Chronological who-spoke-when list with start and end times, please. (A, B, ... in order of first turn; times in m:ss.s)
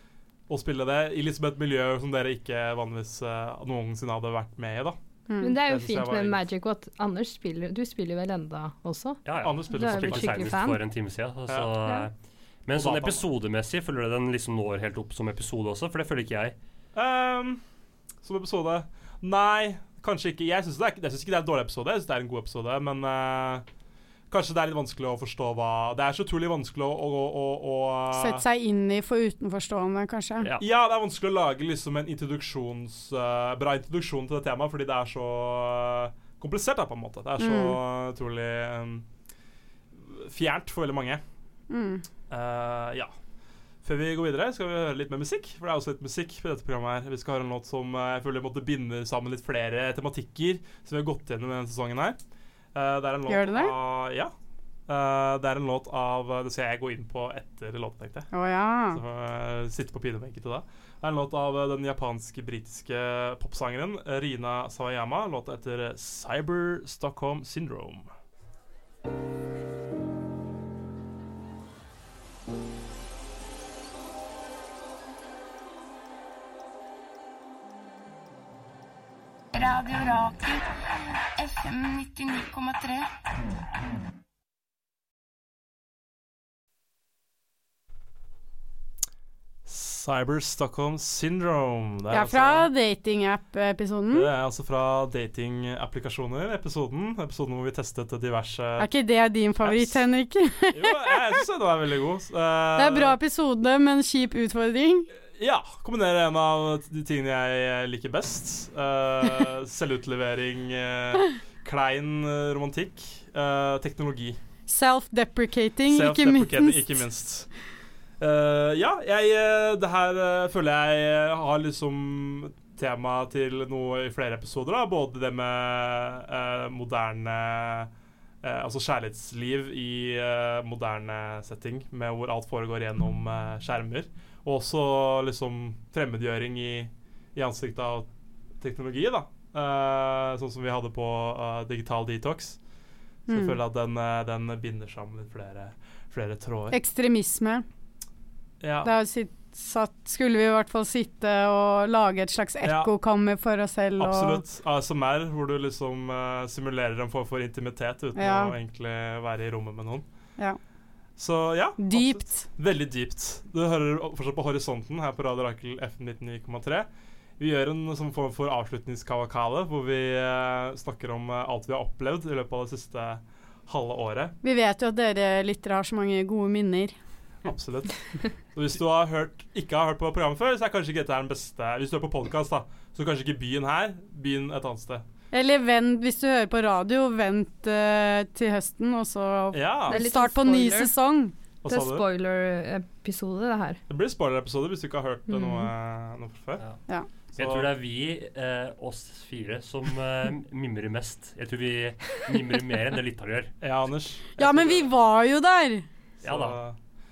0:00.5-0:06.4 A
0:05.3-0:05.6 B
0:05.4-0:10.8 C
0:09.2-0:12.1 D
0:09.4-0:10.5 A
0:11.5-0:11.7 A
0:12.6-0:16.6 D
0:12.7-0:13.3 A
0:16.9-0:17.6 A
0:18.2-0:23.6 A
0:24.3-0:28.4 A
0:28.1-0:30.5 B
0:30.6-0:39.0 A
0:37.4-0:37.8 B
0:39.9-0:41.2 A
0:41.7-0:42.0 B
0:42.3-0:43.1 A
0:43.8-0:52.2 A
0:52.7-0:54.3 A
0:53.3-0:53.7 B
0:54.9-0:58.3 A
0:58.3-0:59.0 B
0:58.9-1:08.1 A
1:19.5-1:23.1 E
1:29.6-1:32.7 A
1:32.1-1:34.3 B
1:34.1-1:38.9 A
1:38.8-1:41.4 B
1:39.6-1:40.0 A
1:40.7-1:43.2 A
1:42.8-1:45.1 B
1:45.4-1:54.4 A
1:54.7-1:56.9 B
1:55.9-1:57.5 A
1:58.2-2:07.9 A
2:08.4-2:18.1 A
2:18.6-2:22.6 A
2:23.3-2:23.6 B
2:23.3-2:26.8 A
2:26.7-2:27.6 B
2:28.6-2:28.9 A
2:28.8-2:34.4 B
2:32.6-2:32.9 A
2:34.0-2:40.1 A
2:38.2-2:38.5 B
2:41.2-2:46.9 A
2:41.8-2:42.4 B
2:47.4-2:54.4 A
2:54.4-2:56.9 B
2:57.4-2:58.0 A
2:58.5-3:05.0 A
3:05.3-3:11.3 B
3:09.5-3:10.0 A
3:09.9-3:10.9 C
3:11.6-3:12.0 A
3:11.6-3:13.8 C
3:13.9-3:16.6 A
3:15.3-3:15.7 C
3:17.3-3:17.7 A
3:17.3-3:23.5 D
3:23.6-3:24.9 A
3:24.4-3:25.9 B
3:26.2-3:26.8 A
3:26.2-3:26.6 D